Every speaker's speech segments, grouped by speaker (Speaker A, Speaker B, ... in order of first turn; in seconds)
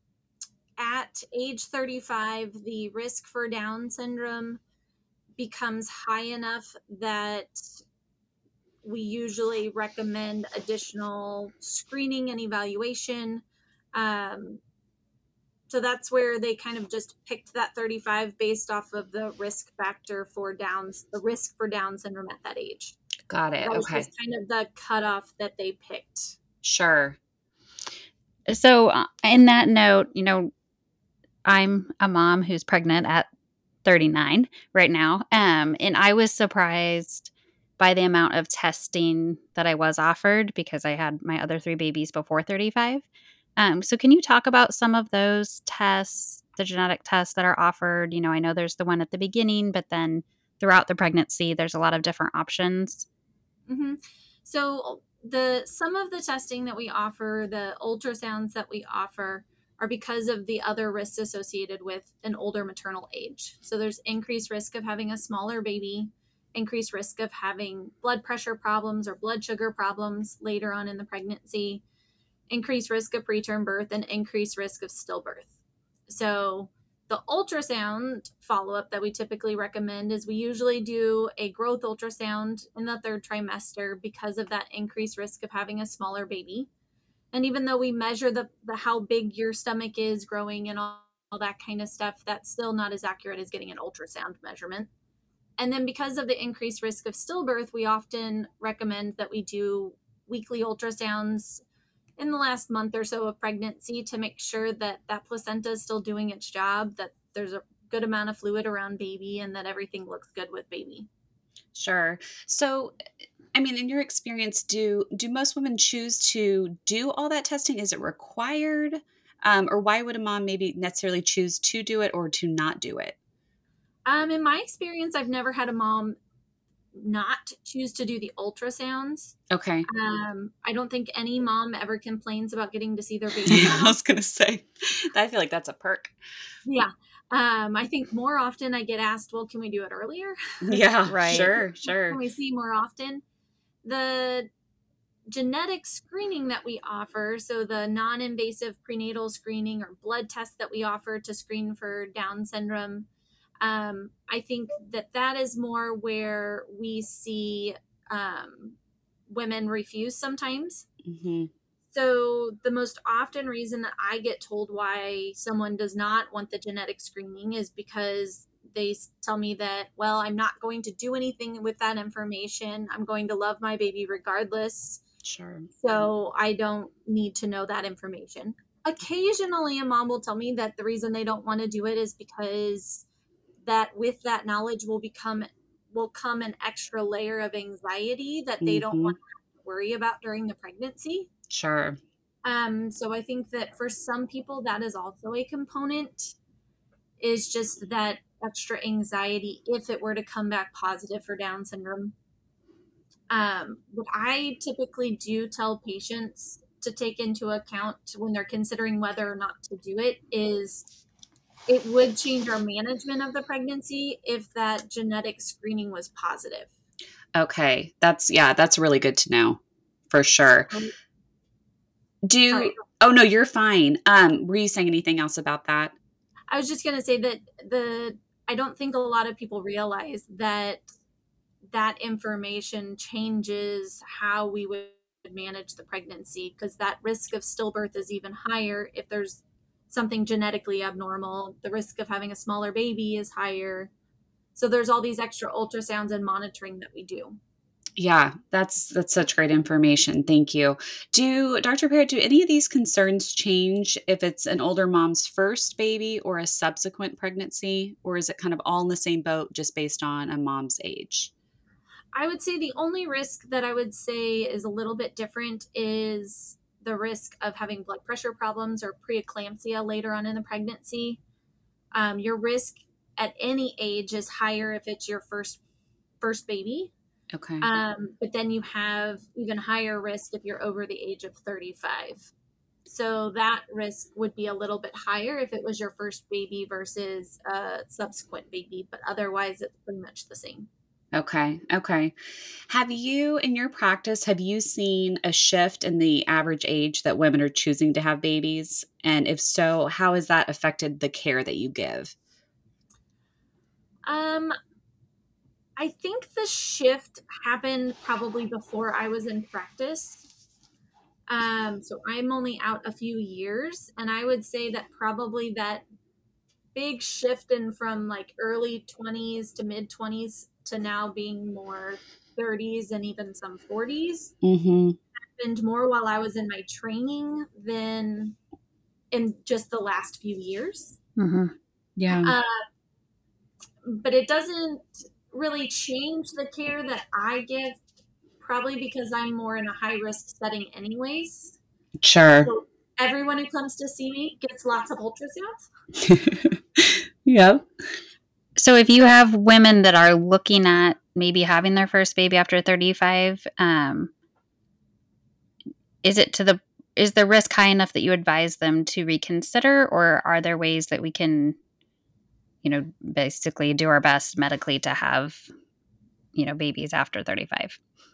Speaker A: 0.8-4.6, 5.4-7.8, 8.8-13.4, 13.9-14.6, 15.7-23.0, 23.6-26.4, 53.7-71.8, 72.5-75.5, 76.1-86.7, 87.3-94.9, 95.6-101.6, 102.2-111.1, 124.1-126.2, 126.9-129.4, 129.9-134.0, 136.7-143.2, 143.8-144.5, 145.3-153.1, 153.6-158.8, 159.3-160.9, 161.9-175.0, 175.8-183.1, 183.6-191.3, 192.4-196.4, 197.2-202.1, 203.3-210.9, 211.7-216.7, 222.5-222.8, 226.5-230.9, 231.7-243.9, 244.6-247.4, 262.1-271.2, 271.9-275.6, 276.2-276.9, 277.6-282.3, 282.9-290.7, 304.1-304.5, 305.8-310.2, 311.3-315.8, 316.7-324.3, 325.4-328.4, 329.1-331.0, 332.2-332.6, 333.8-337.8, 338.4-341.6, 342.4-345.7
Speaker B: 23.3-24.1, 26.6-27.2, 111.7-113.0, 113.5-123.2, 129.5-129.9, 133.5-136.1, 140.6-142.2, 161.0-161.5, 175.2-175.7, 188.6-189.2, 191.5-192.0, 217.3-219.6, 220.1-220.7, 222.2-226.0, 248.0-261.3, 277.3-277.7, 291.1-292.1, 292.7-302.2, 324.4-325.0, 332.0-332.3, 342.0-342.5, 346.0-347.7
Speaker C: 28.5-30.5, 31.4-33.3, 33.9-53.1, 141.1-141.5, 331.2-331.5, 348.6-354.1, 356.0-361.6, 362.6-365.5, 366.4-367.8